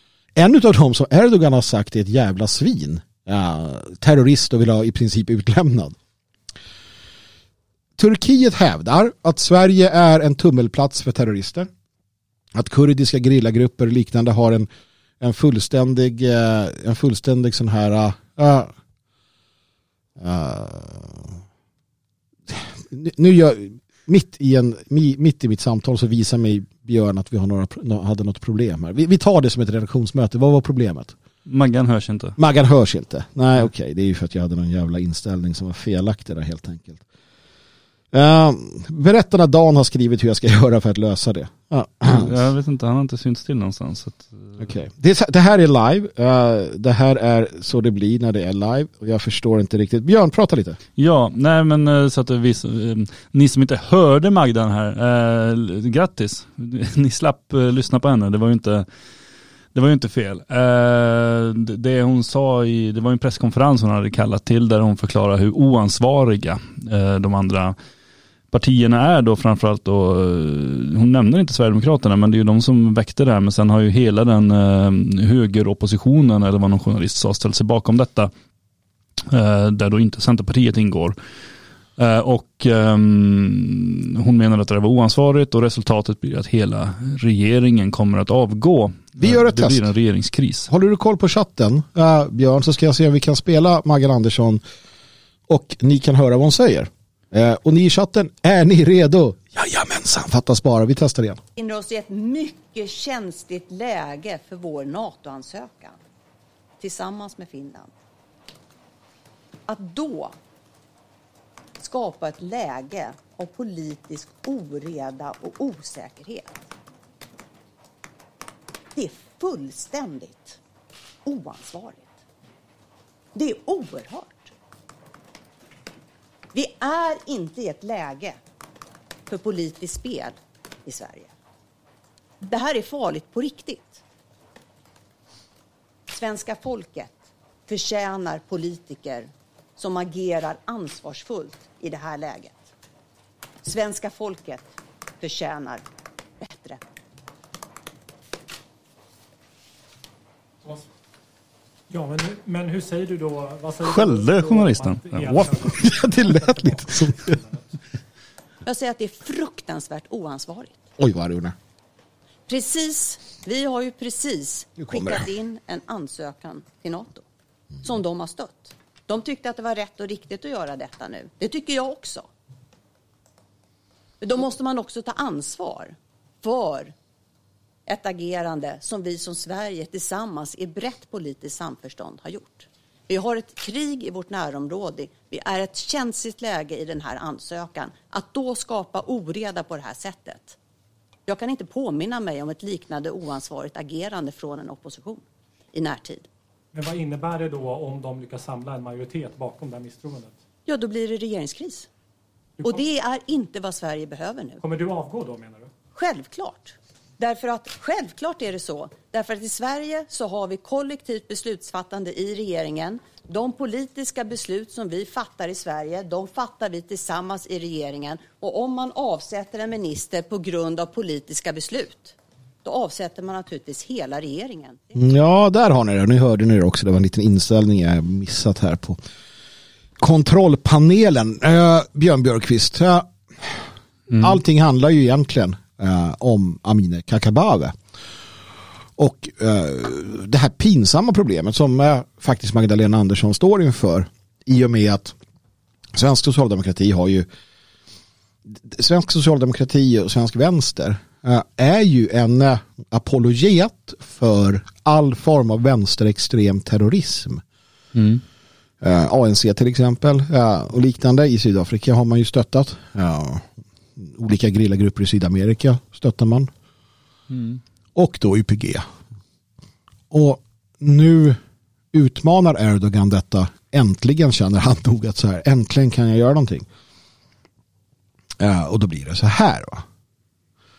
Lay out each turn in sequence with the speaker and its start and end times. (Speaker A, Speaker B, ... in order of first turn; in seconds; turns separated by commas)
Speaker A: 0.3-6.0, Speaker A: 8.0-11.7, Speaker A: 12.5-14.7, Speaker A: 15.2-18.7, Speaker A: 20.2-21.4, Speaker A: 22.5-31.1, Speaker B: 31.4-32.4, Speaker A: 32.4-37.0, Speaker A: 38.1-42.4, Speaker B: 42.0-44.6, Speaker A: 44.6-50.8, Speaker B: 51.0-58.9, Speaker B: 59.7-67.8, Speaker B: 68.5-78.3, Speaker B: 79.2-81.2, Speaker B: 82.0-90.7, Speaker A: 89.2-89.9, Speaker A: 90.7-94.6, Speaker A: 95.5-101.4, Speaker C: 101.5-106.0, Speaker C: 106.8-107.9, Speaker C: 109.7-110.3, Speaker C: 111.8-116.5, Speaker C: 118.9-120.6, Speaker C: 121.2-122.1, Speaker C: 123.3-124.5, Speaker C: 126.5-128.4, Speaker C: 129.3-131.3, Speaker C: 132.4-134.0, Speaker C: 136.1-137.2, Speaker C: 137.7-142.6, Speaker C: 143.6-145.8, Speaker C: 146.4-146.8, Speaker D: 151.9-157.7, Speaker B: 153.8-155.8, Speaker A: 155.3-157.4, Speaker C: 158.6-160.8, Speaker A: 161.0-161.5, Speaker C: 162.5-167.2, Speaker A: 164.8-165.2, Speaker C: 167.8-172.3, Speaker C: 174.2-176.9, Speaker C: 177.8-190.6, Speaker C: 191.3-196.3, Speaker D: 196.7-200.4, Speaker C: 200.7-201.9, Speaker C: 202.6-204.6, Speaker D: 204.6-205.7, Speaker C: 205.9-224.8, Speaker A: 224.9-229.0, Speaker A: 230.0-233.7, Speaker B: 234.1-234.4, Speaker A: 234.2-237.8, Speaker A: 239.0-245.2, Speaker A: 245.9-247.2, Speaker A: 248.5-257.4, Speaker B: 257.9-258.2, Speaker A: 258.8-266.5, Speaker B: 267.3-267.6, Speaker A: 267.9-268.8, Speaker A: 270.1-271.4, Speaker A: 271.9-276.6, Speaker A: 278.4-279.8